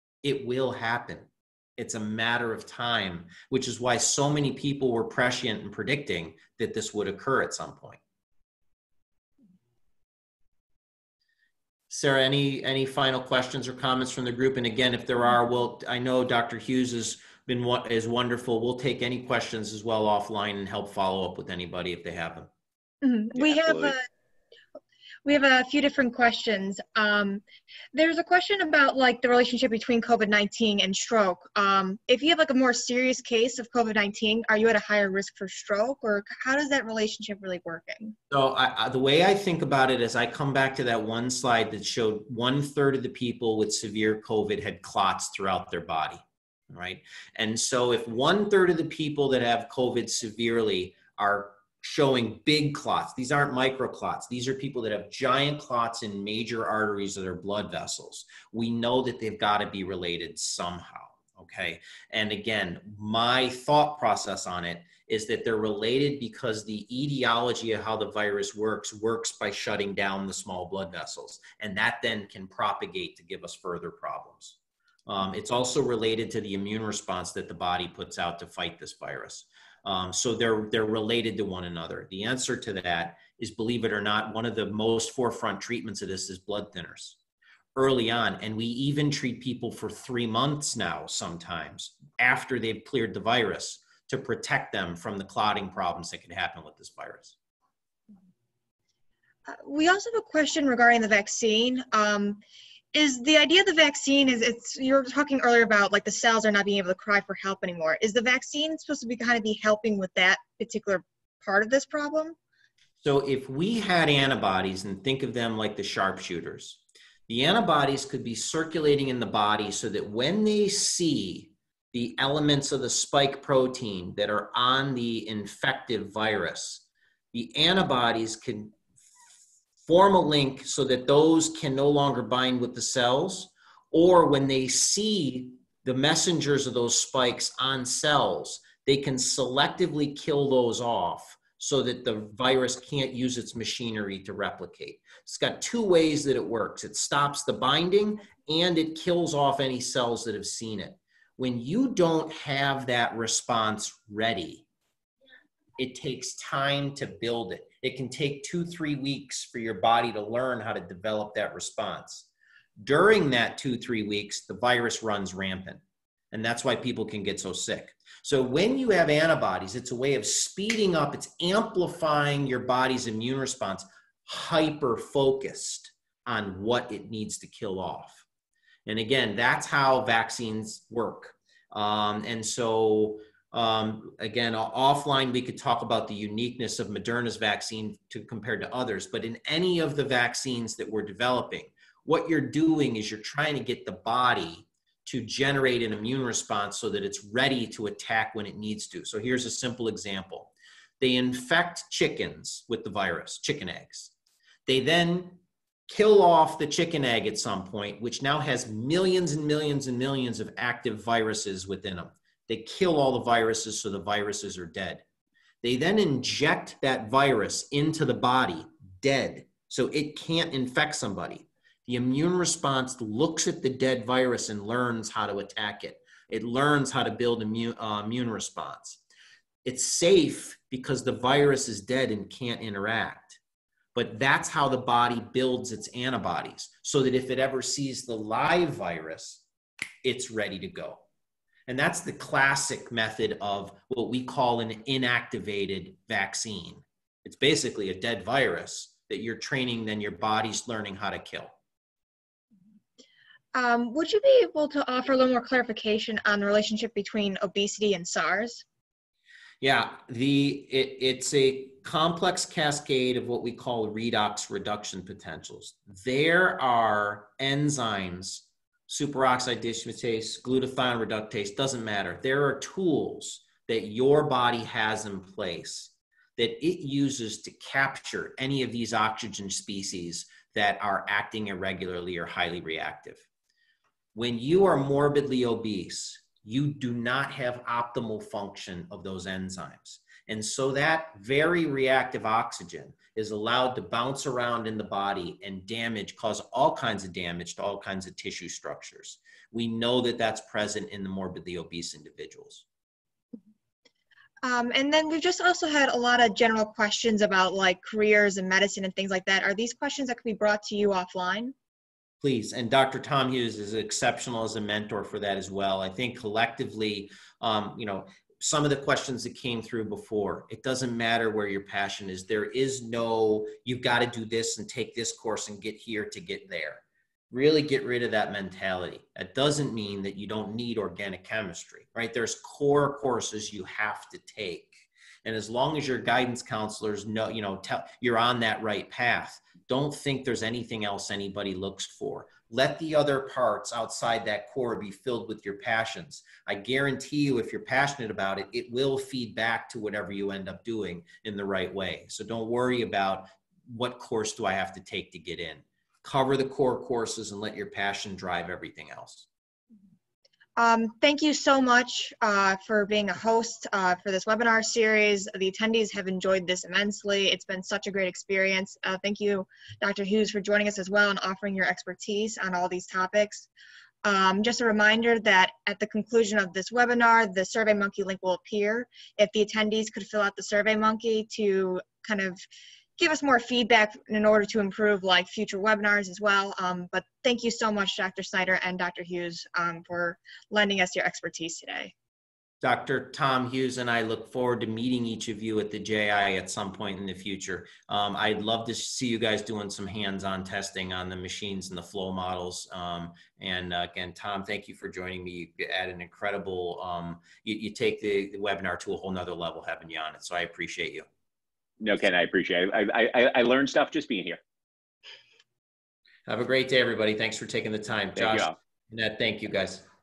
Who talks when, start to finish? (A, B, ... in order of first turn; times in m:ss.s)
0:00.2-0:08.0 A
0:11.9-0:22.5 A
0:23.0-0:24.0 B
0:23.4-0:23.9 C
0:25.2-0:27.4 B
0:27.9-0:38.2 B
0:38.3-1:27.2 A
1:27.8-1:37.3 A
1:39.5-1:42.4 B
1:42.9-1:52.4 B
1:53.0-2:08.8 A
2:09.8-2:34.6 A
2:35.8-2:42.3 A
2:42.8-2:58.2 A
2:58.8-3:24.1 A
3:24.6-3:35.0 A
3:35.6-3:49.0 A
3:49.6-3:53.4 A
3:53.9-3:59.4 A
4:00.0-4:01.0 A
4:01.7-4:11.5 A
4:13.5-4:18.6 B
4:19.6-4:43.2 A
4:44.1-5:02.6 A
5:04.4-5:11.5 B
5:12.2-5:59.3 A
6:00.6-6:13.5 B
6:14.0-6:22.4 B
6:23.0-6:31.9 B
6:32.6-6:51.1 A
6:51.8-6:54.4 C
6:56.3-6:59.8 A
6:58.2-6:58.5 C